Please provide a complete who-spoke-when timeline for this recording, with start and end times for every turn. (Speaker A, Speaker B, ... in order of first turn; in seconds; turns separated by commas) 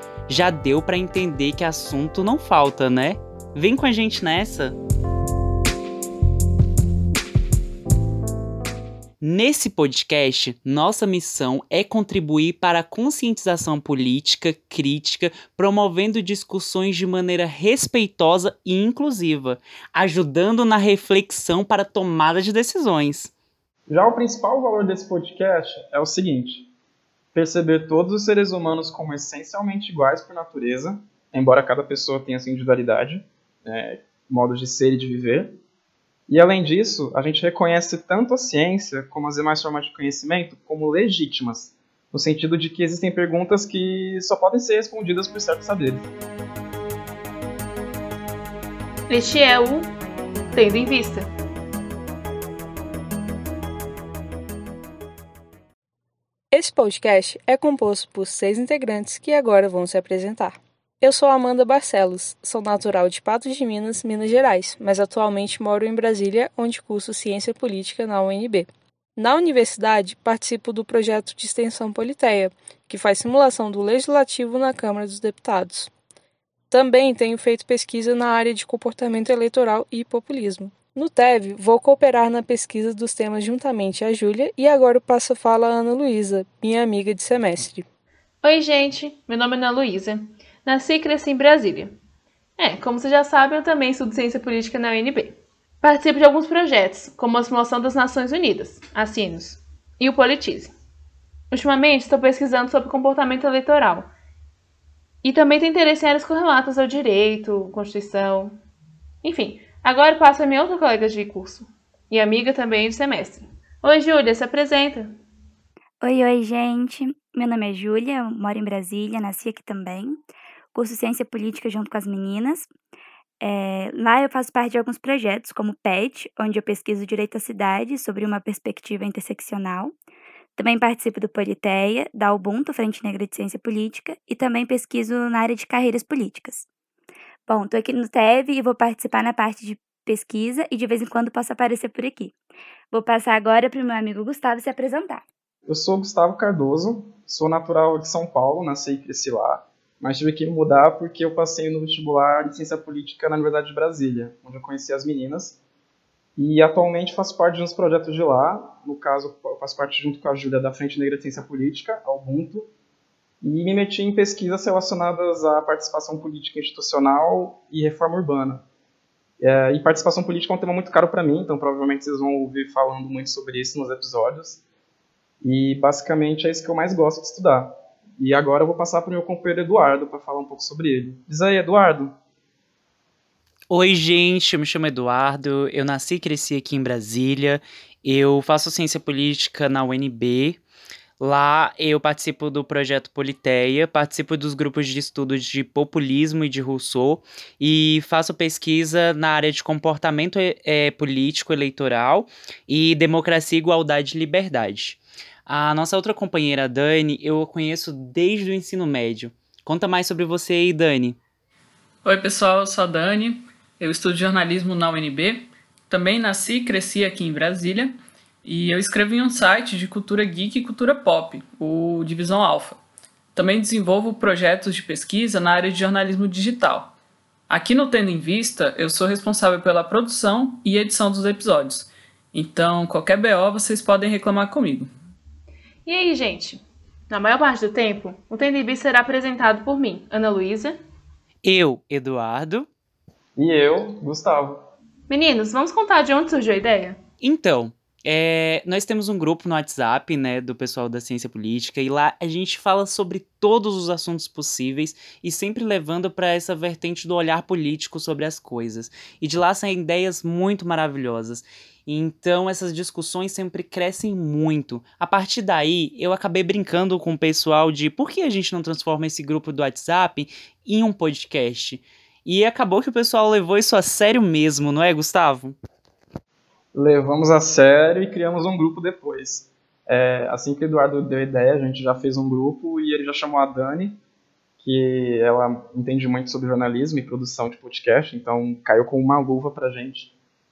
Speaker A: 0.3-4.8, Speaker A: 9.2-23.3, Speaker B: 23.9-26.7, Speaker B: 27.3-35.6, Speaker B: 36.3-46.1, Speaker C: 49.1-49.9, Speaker C: 50.5-51.3, Speaker D: 56.5-75.9, Speaker D: 76.7-87.8, Speaker C: 88.4-91.9, Speaker C: 92.6-100.7, Speaker C: 101.5-104.1, Speaker C: 105.2-108.5, Speaker C: 109.2-115.1, Speaker E: 116.0-120.2, Speaker E: 120.7-122.7, Speaker E: 123.4-129.9, Speaker E: 130.6-136.7, Speaker E: 137.5-142.3, Speaker E: 142.9-145.2, Speaker B: 145.7-155.6, Speaker B: 156.4-162.7, Speaker B: 163.4-168.6, Speaker B: 169.4-174.6, Speaker B: 175.4-182.1, Speaker A: 183.7-190.6, Speaker A: 191.2-211.2, Speaker F: 212.0-217.9, Speaker F: 218.4-222.8, Speaker F: 223.3-226.9, Speaker F: 227.5-234.9, Speaker C: 235.8-240.7, Speaker A: 241.4-242.7, Speaker B: 243.4-244.7, Speaker C: 245.1-247.0, Speaker A: 247.2-275.6, Speaker B: 276.7-284.0, Speaker B: 284.6-290.1